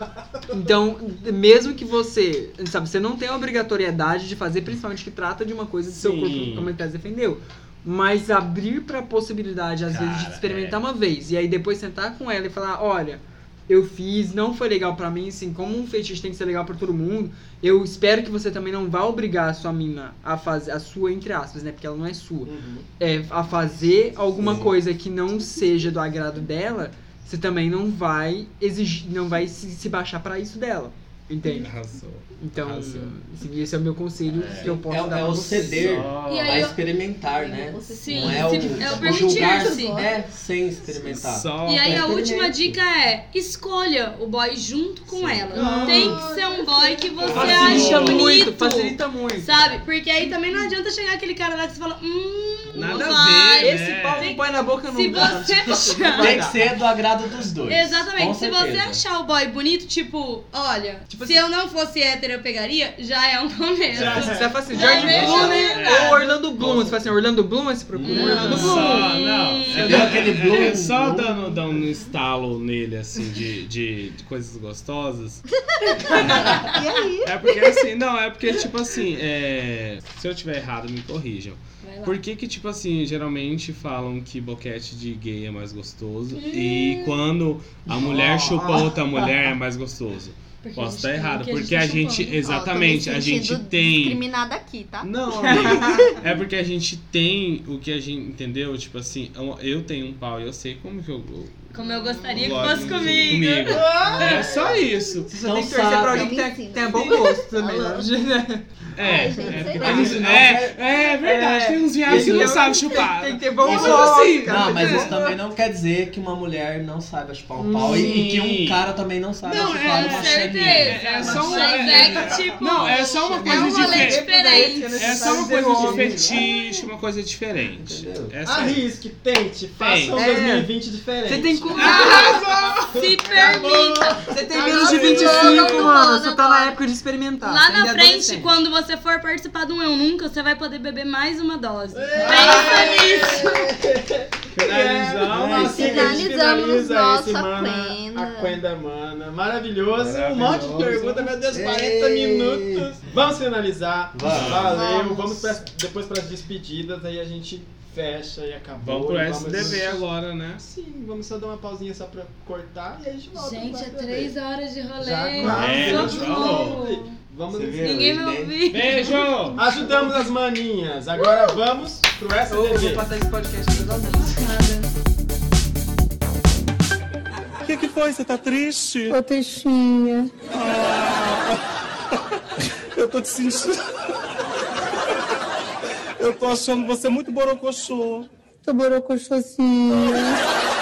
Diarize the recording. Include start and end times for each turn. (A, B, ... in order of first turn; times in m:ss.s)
0:00.5-0:31.7 A
0:06.0-0:06.7 B
0:09.9-0:10.8 B
0:22.4-0:22.9 C
0:24.4-0:24.7 B
0:31.4-0:33.2 B
0:32.4-0:36.0 A
0:34.3-0:34.8 B
0:34.6-0:42.8 D
0:35.6-0:36.7 B
0:36.2-0:36.8 E
0:37.2-0:40.2 F
0:37.9-0:40.1 E
0:41.0-0:42.1 B
0:41.6-0:56.4 E
0:45.1-0:46.1 B
0:45.5-0:46.2 A
0:45.6-0:48.0 C
0:47.2-0:48.3 B
0:47.3-0:49.6 A
0:52.7-0:54.3 B
0:52.9-0:56.6 A
0:56.2-0:59.0 D
0:57.6-1:06.2 E
1:01.1-1:01.4 A
1:03.9-1:05.5 C
1:03.9-1:04.2 B
1:04.0-1:09.0 A
1:04.8-1:07.0 B
1:08.1-1:08.9 C
1:08.1-1:10.7 E
1:08.1-1:15.4 B
1:09.7-1:11.6 D
1:15.7-1:17.8 F
1:16.0-1:16.7 B
1:16.5-1:16.8 E
1:17.2-1:34.2 B
1:21.8-1:22.2 E
1:26.3-1:27.2 E
1:27.9-1:29.3 A
1:30.6-1:32.4 E
1:32.4-1:36.1 F
1:35.0-1:41.7 B
1:35.4-1:36.0 A
1:41.7-1:44.5 E
1:42.3-1:45.3 B
1:43.6-1:44.9 C
1:45.3-1:48.6 A
1:45.5-1:46.3 D
1:45.6-1:48.1 F
1:48.9-1:55.1 B
1:49.0-1:50.4 F
1:49.6-1:50.8 D
1:51.2-1:55.4 A
1:52.1-1:52.7 D
1:53.6-2:01.8 D
1:57.6-1:58.2 A
1:57.7-2:04.3 B
1:59.4-2:05.4 E
2:01.3-2:06.4 A
2:04.9-2:08.9 B
2:05.8-2:06.3 D
2:06.3-2:06.8 E
2:07.7-2:08.4 D
2:08.4-2:15.8 C
2:09.8-2:10.2 B
2:10.1-2:10.7 A
2:11.2-2:12.4 A
2:11.7-2:12.9 B
2:11.7-2:14.3 E
2:14.3-2:18.6 A
2:14.9-2:16.7 F
2:14.9-2:15.9 E
2:17.4-2:23.7 E
2:21.9-2:40.0 C
2:24.5-2:26.2 B
2:25.3-2:26.2 D
2:25.7-2:28.6 F
2:29.9-2:31.3 B
2:31.5-2:32.9 D
2:34.1-2:34.8 D
2:34.2-2:34.8 B
2:34.7-2:35.6 F
2:38.8-2:40.6 B
2:40.6-2:44.3 C
2:43.3-2:47.2 E
2:45.0-2:48.2 C
2:45.4-2:46.8 B
2:47.5-2:48.6 D
2:47.8-2:49.6 E
2:48.7-2:49.6 B
2:49.6-2:53.1 C
2:52.5-2:54.5 A
2:54.0-2:54.9 E
2:57.6-3:01.5 G
3:02.9-3:03.8 G
3:06.2-3:10.4 G